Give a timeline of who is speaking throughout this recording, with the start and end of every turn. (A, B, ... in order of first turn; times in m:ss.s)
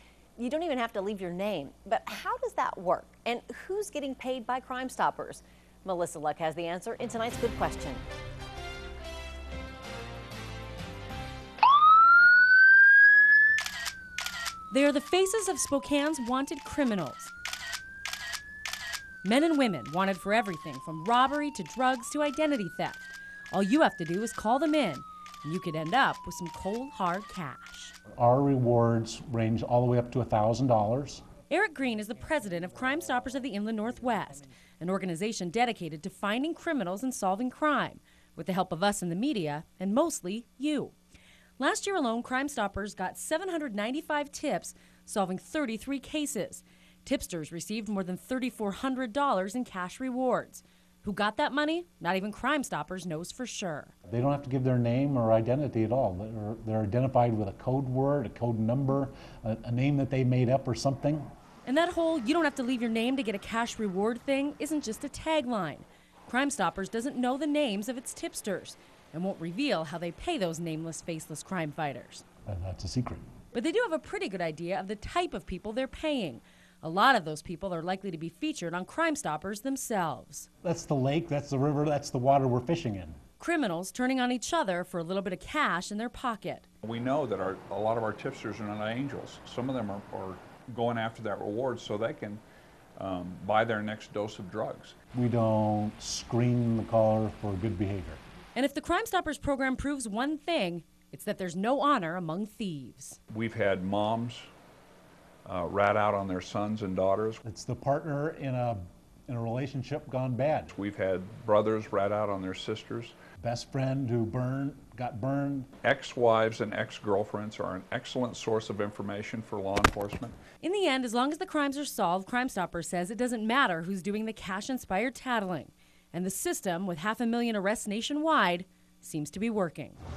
0:00.4-0:08.0 A
0:14.7-0:17.3 B
0:19.2-0:27.9 B
0:28.2-0:31.2 C
0:31.5-0:40.9 B
0:41.6-0:53.9 B
0:54.1-1:01.2 C
1:01.6-1:12.2 B
1:12.4-1:13.2 C
1:13.5-1:20.5 B
1:20.6-1:23.2 C
1:23.4-1:26.6 B
1:26.8-1:32.4 D
1:33.0-1:34.9 D
1:35.1-1:38.2 C
1:38.6-1:43.2 B
1:43.3-1:44.5 D
1:45.4-1:47.4 D
1:47.4-1:50.7 C
1:50.7-1:53.1 D
1:53.4-1:55.7 C
1:55.8-2:00.4 D
2:00.6-2:10.0 B